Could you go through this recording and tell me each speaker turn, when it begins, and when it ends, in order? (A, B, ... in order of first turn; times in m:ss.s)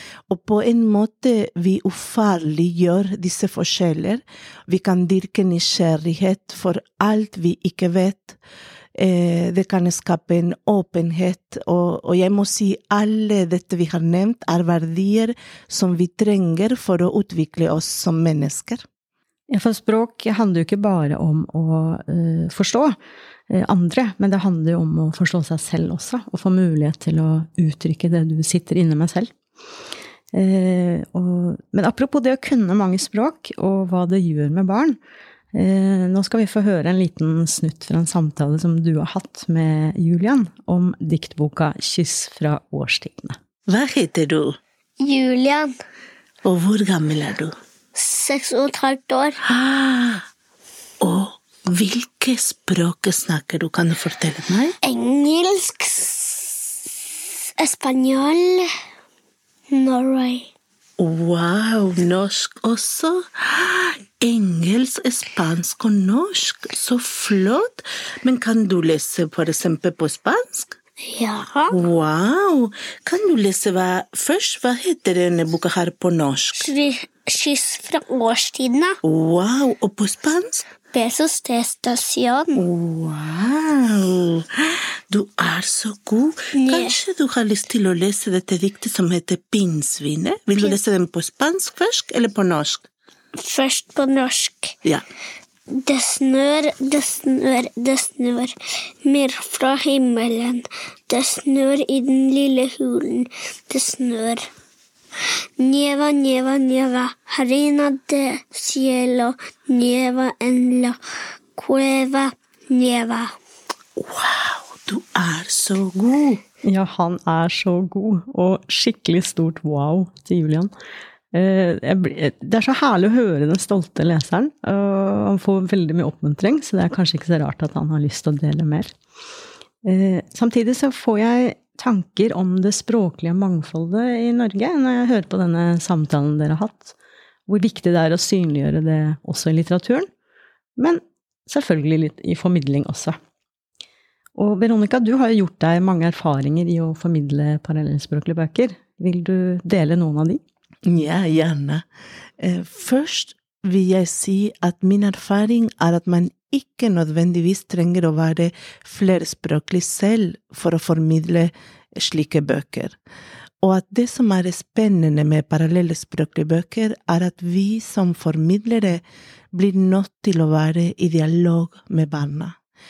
0:00.3-0:08.4 A
0:08.9-0:18.8 A
0:19.5-0:23.0 B
0:23.5-0:29.3 B
0:30.3-0:35.0 B
0:35.5-0:43.4 B
0:43.7-0:44.6 A
0:45.0-0:45.7 C
0:46.4-0:47.5 A
0:47.9-0:49.4 C
0:49.4-0:50.2 A
0:51.0-0:54.8 A
0:54.8-0:56.9 C
0:57.6-0:58.7 C
0:59.7-1:00.5 C
1:01.0-1:10.8 A
1:11.0-1:11.8 C
1:11.7-1:16.7 A
1:16.6-1:19.0 C
1:19.0-1:20.6 A
1:20.9-1:22.6 C
1:22.5-1:32.9 A
1:26.5-1:26.9 C
1:33.4-1:34.7 C
1:35.7-1:38.5 C
1:39.0-1:44.5 C
1:45.6-1:51.0 C
1:51.6-1:53.3 C
1:54.0-1:56.4 A
1:56.6-2:00.7 B
2:01.3-2:08.9 B
2:09.8-2:16.9 B
2:17.5-2:20.1 B
2:20.8-2:23.2 B
2:24.4-2:30.4 B
2:30.8-2:31.8 A
2:32.4-2:43.0 A
2:43.6-2:52.6 A